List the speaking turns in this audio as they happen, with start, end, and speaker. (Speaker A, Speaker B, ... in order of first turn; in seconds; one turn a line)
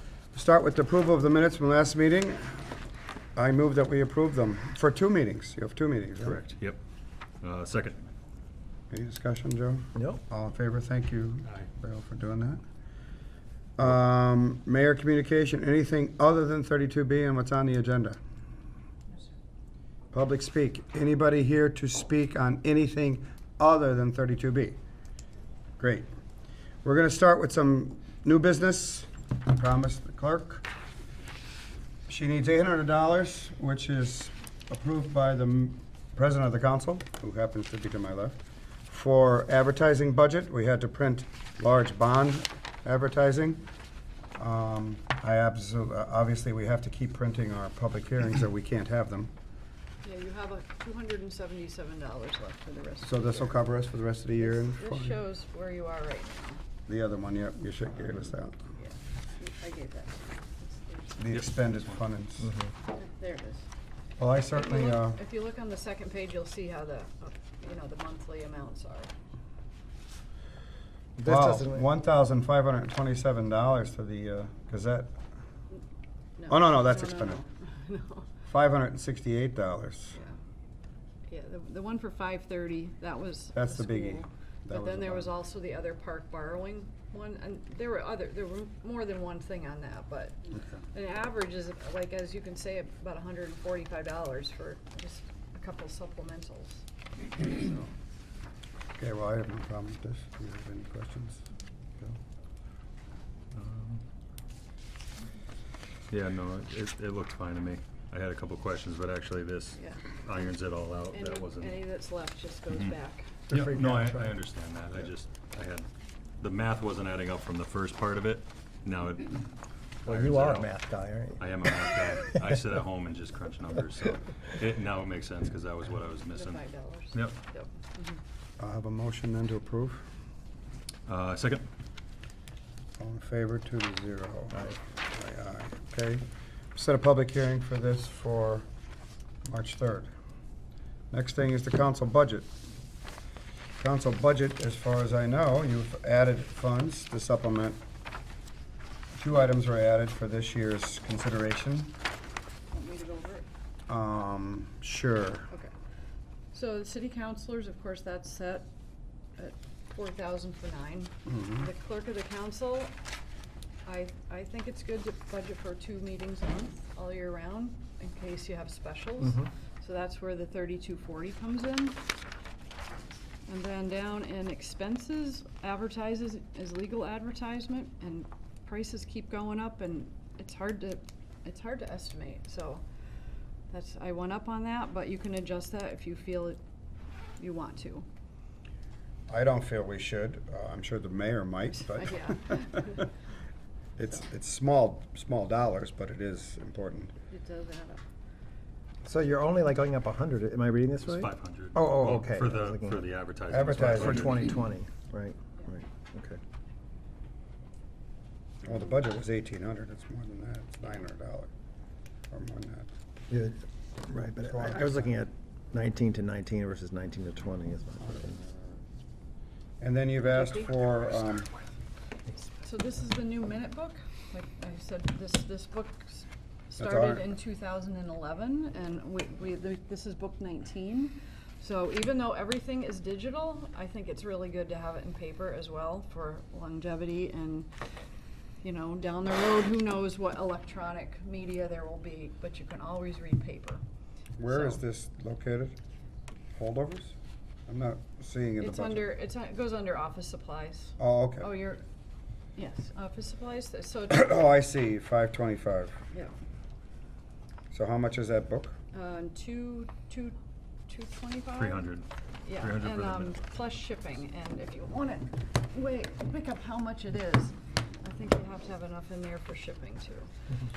Speaker A: 0.3-2.7
Speaker A: 3.4-6.4
Speaker B: 6.2-6.8
Speaker B: 7.4-8.0
Speaker A: 8.9-12.6
Speaker A: 13.8-18.2
Speaker A: 20.1-24.8
Speaker A: 25.8-26.1
Speaker A: 26.8-30.6
Speaker A: 32.1-38.4
Speaker A: 38.9-43.6
Speaker A: 44.4-49.3
Speaker C: 50.0-53.5
Speaker A: 53.0-55.1
Speaker C: 54.4-56.6
Speaker A: 56.9-58.6
Speaker C: 58.8-61.2
Speaker A: 61.2-62.5
Speaker B: 61.3-61.7
Speaker D: 62.4-62.7
Speaker C: 62.9-63.7
Speaker A: 64.2-65.2
Speaker C: 64.5-69.1
Speaker D: 71.2-71.8
Speaker A: 71.2-75.1
Speaker C: 76.4-78.3
Speaker A: 76.5-77.4
Speaker A: 78.5-80.2
Speaker C: 81.3-96.8
Speaker A: 83.5-85.3
Speaker A: 90.5-90.8
Speaker A: 99.0-101.4
Speaker B: 103.5-104.0
Speaker B: 106.1-111.9
Speaker C: 109.7-110.1
Speaker C: 111.1-113.4
Speaker B: 113.5-115.9
Speaker D: 113.5-114.1
Speaker B: 116.4-119.5
Speaker B: 120.0-120.7
Speaker D: 120.0-121.5
Speaker B: 121.4-126.6
Speaker C: 126.3-128.2
Speaker A: 128.6-130.0
Speaker B: 131.1-131.7
Speaker A: 133.0-136.2
Speaker A: 136.7-138.7
Speaker A: 139.4-140.1
Speaker A: 141.1-142.5
Speaker A: 143.8-147.8
Speaker A: 149.1-151.9
Speaker C: 152.7-153.5
Speaker A: 153.9-155.5
Speaker C: 156.5-158.7
Speaker C: 159.3-162.9
Speaker A: 161.3-161.7
Speaker C: 163.8-172.0
Speaker C: 173.5-182.8
Speaker C: 183.7-186.6
Speaker C: 187.4-188.1
Speaker A: 189.3-192.9
Speaker C: 191.8-193.0
Speaker A: 194.0-197.1
Speaker C: 197.3-198.0
Speaker D: 199.0-203.0
Speaker B: 201.0-204.6
Speaker A: 203.5-204.4
Speaker D: 203.8-206.4
Speaker A: 208.6-211.5
Speaker A: 212.3-212.9
Speaker D: 213.3-218.4
Speaker A: 214.4-215.1
Speaker A: 219.8-221.5
Speaker C: 222.6-237.7
Speaker A: 226.8-227.2
Speaker C: 238.6-243.8
Speaker A: 244.4-245.8
Speaker C: 244.5-244.8
Speaker A: 246.5-247.1
Speaker A: 247.7-249.1
Speaker C: 248.6-251.8
Speaker A: 251.0-251.6
Speaker C: 252.6-254.4
Speaker A: 254.1-256.0
Speaker A: 257.7-258.8
Speaker C: 258.9-260.4
Speaker C: 260.9-261.8
Speaker B: 261.6-262.1
Speaker C: 262.4-270.3
Speaker B: 262.6-263.4